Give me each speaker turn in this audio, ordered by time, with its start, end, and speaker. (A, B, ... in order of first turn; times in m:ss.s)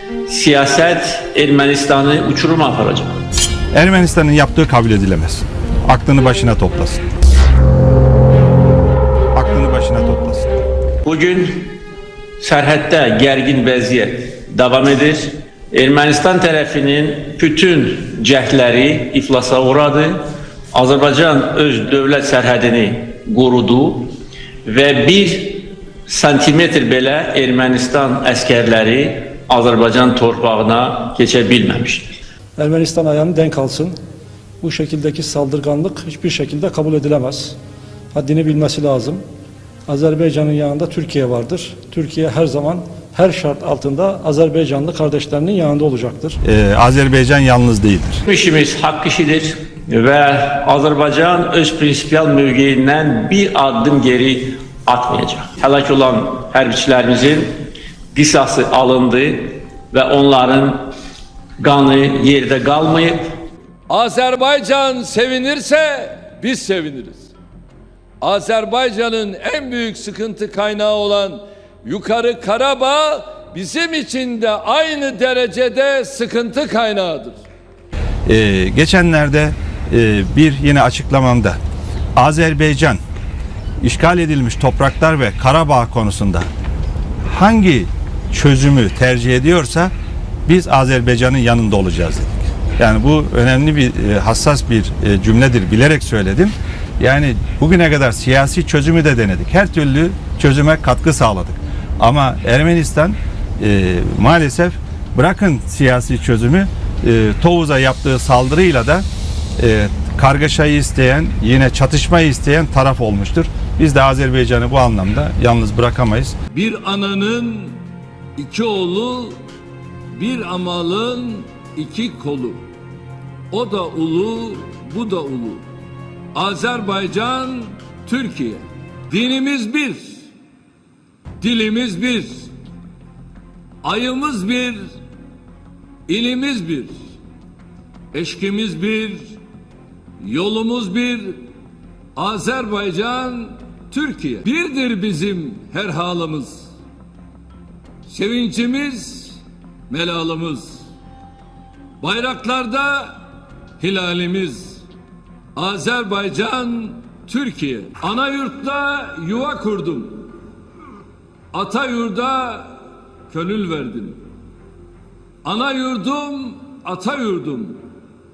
0:00.3-0:03.1 A
0:03.7-0:07.0 B
0:09.3-0:10.5 B
0:11.0-0:11.8 A
0:12.4-0:24.1 A
0:24.6-0:32.2 A
0:32.6-0:33.9 C
0:34.6-0:37.6 C
0:38.1-0:39.2 C
0:39.9-0:46.4 C
0:46.4-0:48.2 B
0:48.2-0:57.5 A
0:58.1-1:00.9 A
1:01.6-1:03.3 A
1:03.9-1:07.3 D
1:08.2-1:17.4 D
1:18.2-1:21.6 B
1:22.2-1:23.0 B
1:23.8-1:26.5 B
1:27.3-1:29.9 B
1:30.4-1:49.0 B
1:49.6-1:56.3 B
1:56.5-1:57.8 D
1:58.4-1:59.4 D
2:00.1-2:02.6 D
2:03.5-2:05.6 D
2:06.3-2:10.2 D
2:11.4-2:12.5 D
2:13.8-2:14.9 D
2:16.1-2:17.0 D
2:18.1-2:19.4 D
2:20.2-2:21.4 D
2:22.2-2:26.7 D
2:28.1-2:30.8 D
2:32.0-2:33.2 D
2:33.8-2:34.8 D
2:35.5-2:40.3 D
2:41.5-2:44.2 D
2:45.4-2:47.8 D